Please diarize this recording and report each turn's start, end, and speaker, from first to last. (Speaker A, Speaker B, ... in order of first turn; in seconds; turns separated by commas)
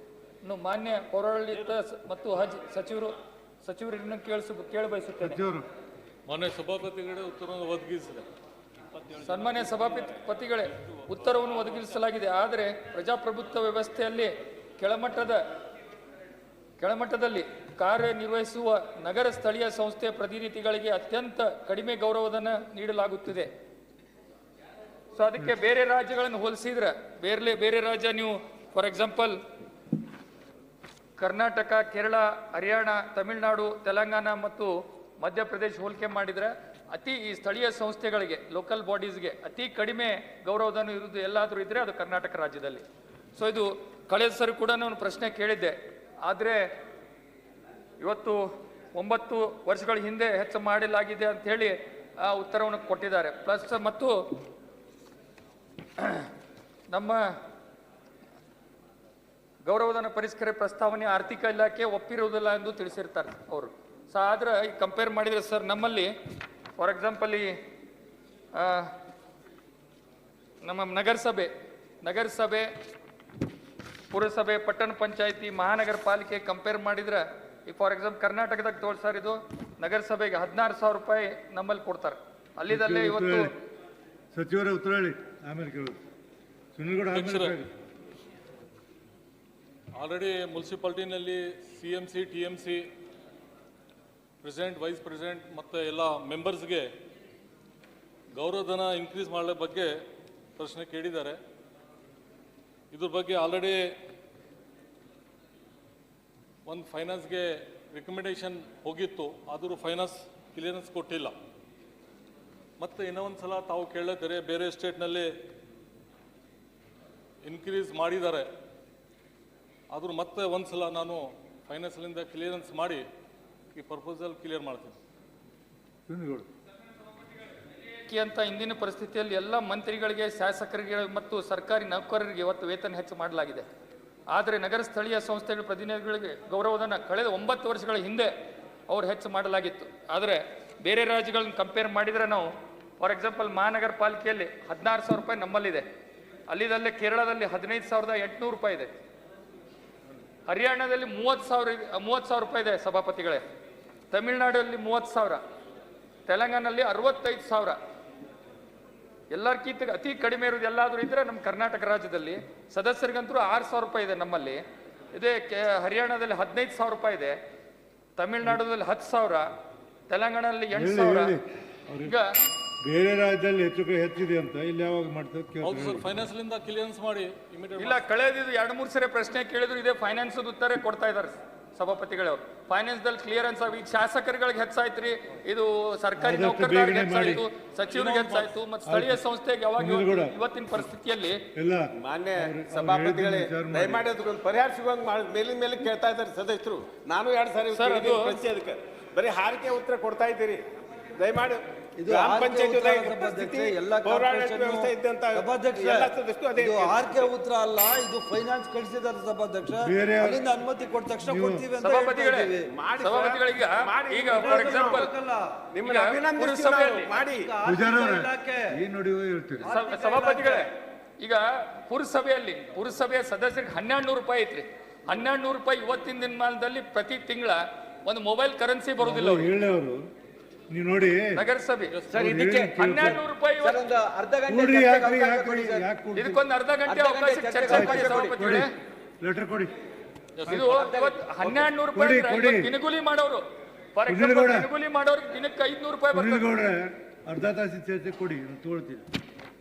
Speaker A: 0.4-5.4, Speaker B: 5.2-5.7, Speaker C: 6.3-8.3, Speaker A: 9.2-15.4, Speaker A: 16.8-23.5, Speaker A: 25.1-29.4, Speaker A: 31.2-46.7, Speaker A: 48.0-54.2, Speaker A: 56.0-56.3, Speaker A: 56.9-57.3, Speaker A: 59.6-66.1, Speaker A: 66.8-67.6, Speaker A: 68.5-69.0, Speaker A: 70.6-71.5, Speaker A: 72.0-72.7, Speaker A: 74.1-83.5, Speaker B: 82.7-83.5, Speaker B: 84.3-86.0, Speaker B: 86.8-87.7, Speaker C: 87.1-87.6, Speaker C: 90.0-92.8, Speaker C: 94.4-96.9, Speaker C: 98.3-99.9, Speaker C: 100.6-101.4, Speaker C: 102.9-103.8, Speaker C: 106.7-111.3, Speaker C: 112.8-115.3, Speaker C: 117.4-118.5, Speaker C: 119.9-123.0, Speaker C: 123.8-125.0, Speaker B: 126.1-126.5, Speaker A: 128.1-133.7, Speaker A: 134.3-138.3, Speaker A: 138.9-145.8, Speaker A: 146.5-149.0, Speaker A: 150.5-153.4, Speaker A: 154.1-155.4, Speaker A: 156.3-157.8, Speaker A: 159.3-164.6, Speaker A: 165.1-167.4, Speaker A: 168.2-169.5, Speaker A: 170.1-171.3, Speaker B: 170.7-172.1, Speaker A: 172.1-172.3, Speaker B: 172.8-176.1, Speaker C: 175.6-178.0, Speaker A: 177.8-191.4, Speaker B: 186.2-187.4, Speaker C: 187.9-188.5, Speaker B: 188.9-189.2, Speaker B: 189.8-190.4, Speaker B: 191.5-194.1, Speaker D: 192.0-200.6, Speaker A: 197.7-198.4, Speaker D: 201.2-207.3, Speaker E: 202.0-212.7, Speaker B: 209.8-210.5, Speaker B: 211.2-211.7, Speaker A: 211.8-215.1, Speaker D: 212.7-215.0, Speaker E: 214.4-215.7, Speaker D: 215.7-217.5, Speaker A: 215.8-217.2, Speaker E: 217.2-218.8, Speaker B: 217.6-219.7, Speaker A: 219.6-229.5, Speaker E: 219.7-220.7, Speaker B: 229.0-230.0, Speaker B: 230.7-231.4, Speaker A: 231.3-231.9, Speaker B: 232.1-233.2, Speaker E: 232.1-232.7, Speaker D: 232.2-232.7, Speaker A: 232.8-233.8, Speaker E: 233.6-235.9, Speaker B: 234.5-236.4, Speaker A: 236.2-238.7, Speaker E: 236.9-237.8, Speaker D: 237.6-238.6, Speaker B: 237.7-239.7, Speaker C: 240.4-240.7, Speaker A: 240.5-246.5, Speaker E: 240.8-241.2, Speaker B: 241.9-242.7, Speaker B: 244.1-244.7, Speaker B: 246.1-249.1